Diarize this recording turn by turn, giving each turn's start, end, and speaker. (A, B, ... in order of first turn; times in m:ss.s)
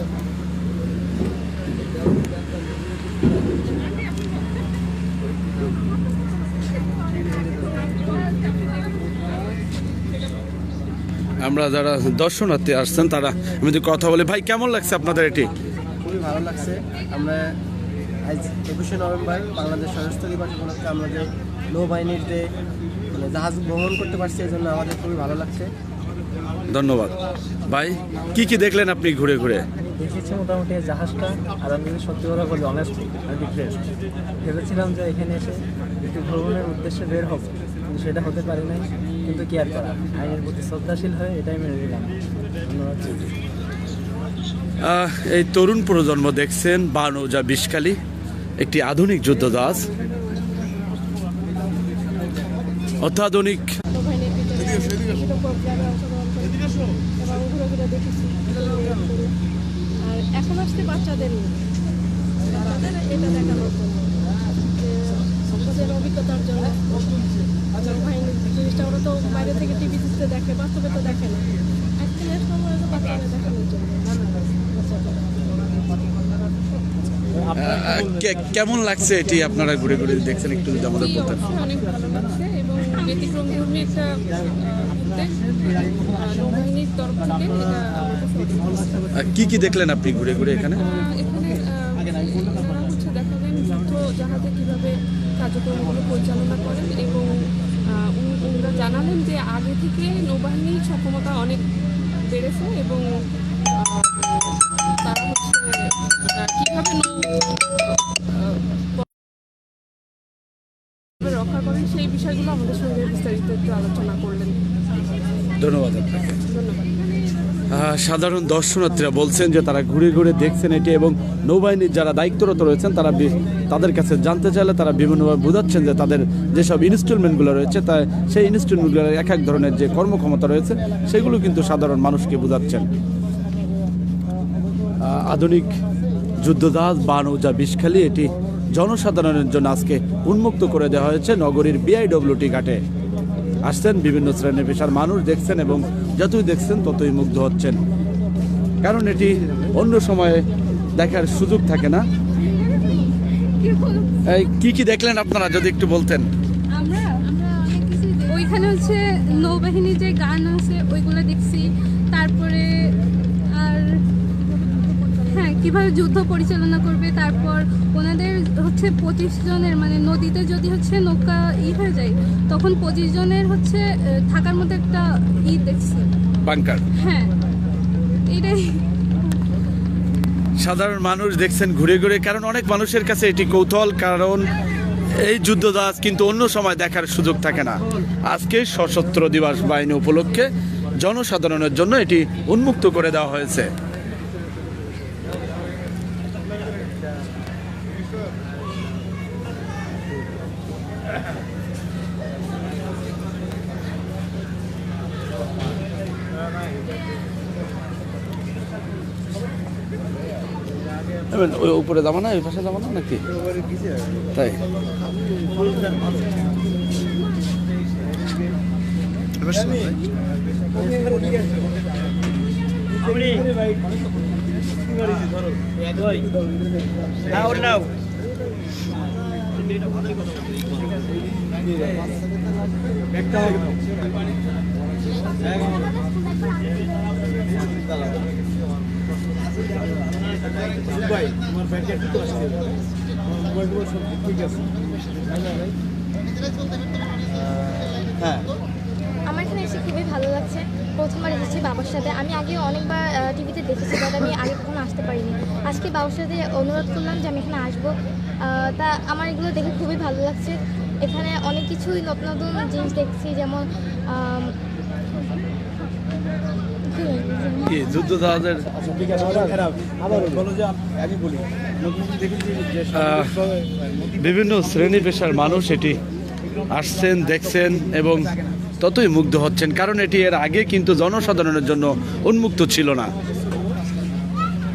0:11.4-0:15.5 A
0:16.0-0:17.5 B
0:18.2-0:22.5 B
0:23.1-0:25.7 B
0:26.7-0:27.2 A
0:27.7-0:29.6 A
0:29.8-0:33.8 C
0:34.4-0:43.3 C
0:44.8-0:48.0 A
0:48.6-0:49.9 A
0:53.0-0:53.7 A
0:53.9-0:56.6 D
0:57.2-0:59.3 D
1:00.0-1:01.6 D
1:02.5-1:07.1 D
1:07.8-1:11.4 D
1:12.0-1:15.4 D
1:17.6-1:21.5 A
1:20.9-1:29.1 E
1:29.2-1:30.8 A
1:30.3-1:37.3 E
1:38.2-1:41.6 E
1:42.3-1:43.0 E
1:43.8-1:45.7 E
1:46.3-1:47.9 E
1:48.5-1:49.0 E
1:51.2-1:54.6 E
1:55.6-1:56.4 A
1:56.5-1:57.2 E
1:57.7-2:12.9 A
2:15.0-2:15.7 A
2:16.4-2:22.8 A
2:23.7-2:27.8 A
2:28.8-2:30.4 A
2:31.0-2:32.0 A
2:32.6-2:33.1 F
2:33.6-2:34.1 F
2:34.3-2:36.3 A
2:36.7-2:42.9 F
2:43.5-2:43.9 F
2:44.6-2:56.1 F
2:56.4-2:56.8 A
2:57.0-2:57.3 F
2:58.3-2:58.8 F
3:00.6-3:04.4 A
3:05.2-3:10.5 A
3:11.0-3:13.7 A
3:31.3-3:33.2 A
3:34.4-3:34.6 A
4:09.3-4:24.5 G
4:26.9-4:27.8 G
4:27.6-4:28.7 A
4:32.9-4:33.4 A
4:34.2-4:36.0 A
4:36.7-4:43.1 A